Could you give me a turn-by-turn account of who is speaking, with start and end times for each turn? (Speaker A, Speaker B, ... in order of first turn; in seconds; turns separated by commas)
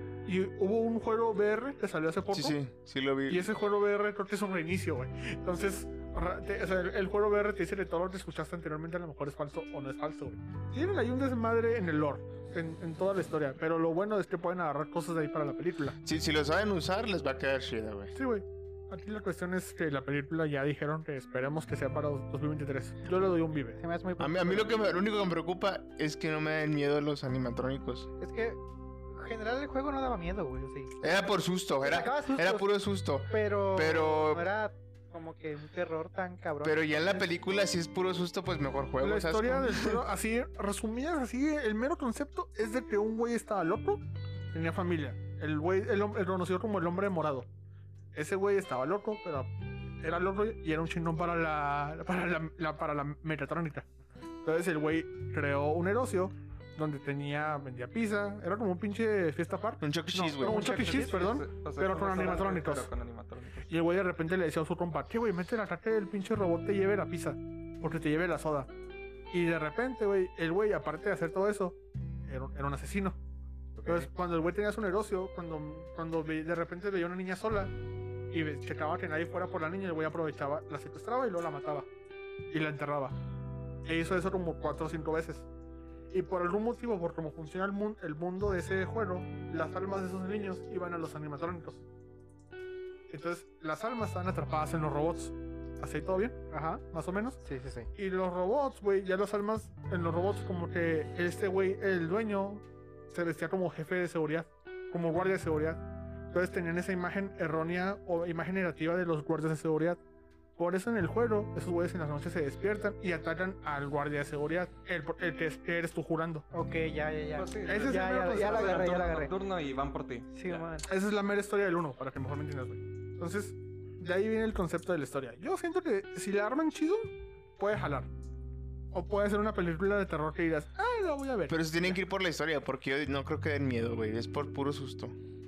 Speaker A: 0.2-2.6, Speaker B: 2.3-3.5, Speaker A: 3.3-15.9, Speaker B: 16.0-18.1, Speaker A: 18.1-23.8, Speaker C: 23.8-24.7, Speaker B: 24.2-28.1, Speaker C: 28.2-28.6, Speaker C: 29.1-31.0, Speaker B: 31.0-34.5, Speaker C: 31.8-32.7, Speaker C: 33.2-37.3, Speaker B: 36.6-40.0, Speaker A: 39.0-47.5, Speaker A: 48.1-53.9, Speaker A: 54.4-62.9, Speaker B: 59.8-60.7, Speaker C: 60.4-61.4, Speaker D: 60.5-63.7, Speaker A: 63.7-68.7, Speaker A: 69.3-73.2, Speaker C: 73.8-74.1, Speaker A: 73.8-77.7, Speaker A: 78.3-81.9, Speaker A: 82.5-83.2, Speaker A: 83.8-85.5, Speaker A: 86.1-91.8, Speaker A: 93.1-96.4, Speaker C: 96.5-96.8, Speaker A: 96.9-97.4, Speaker C: 97.4-97.9, Speaker A: 97.9-110.0, Speaker A: 110.6-116.5, Speaker C: 116.5-119.3, Speaker D: 117.3-120.7, Speaker A: 117.7-119.0, Speaker C: 120.3-120.9, Speaker A: 120.8-128.1, Speaker A: 128.9-132.0, Speaker B: 131.5-135.1